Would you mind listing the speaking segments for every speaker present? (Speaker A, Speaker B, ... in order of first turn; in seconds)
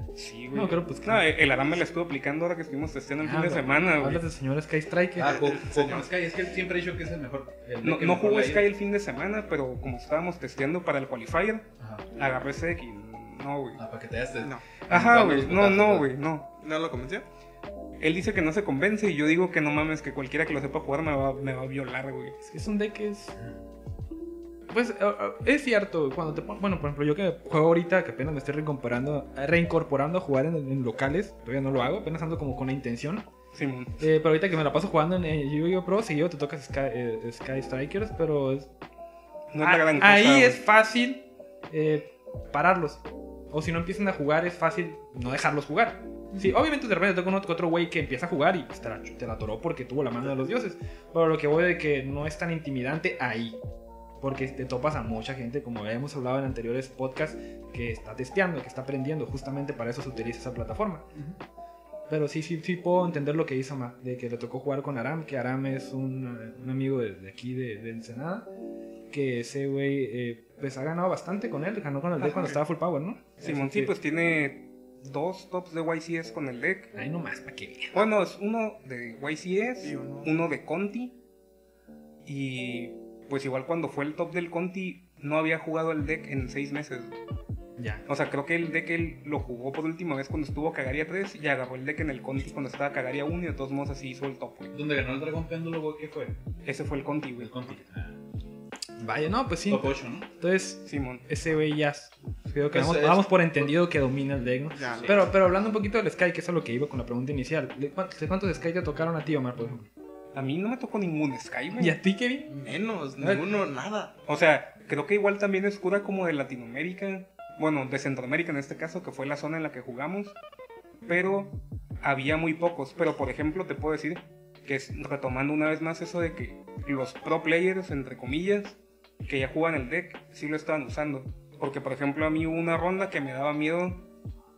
Speaker A: 0.1-4.2, 7.8-13.8, 14.9-16.5, 18.0-22.4, 33.5-33.9, 39.5-40.6, 72.2-72.6, 73.4-76.9, 77.9-81.1, 82.2-87.1, 88.1-94.7, 96.6-97.7, 100.8-101.2, 110.3-112.0, 114.3-120.3, 121.0-134.0
Speaker B: 0.5-1.2, 3.2-5.4, 22.4-23.3, 24.7-33.2, 34.0-38.7, 39.6-53.6, 54.2-61.1, 62.1-68.5, 69.1-73.9, 76.9-78.0, 87.8-88.0, 99.0-109.9, 111.8-112.5, 113.2-113.4
Speaker C: 5.2-8.7, 13.8-16.1, 94.7-96.3, 97.4-98.2, 99.7-100.3, 102.7-103.7, 104.8-105.2
Speaker D: 5.2-6.1, 14.4-14.6, 16.6-17.2, 79.8-80.3, 104.7-105.3, 112.5-114.1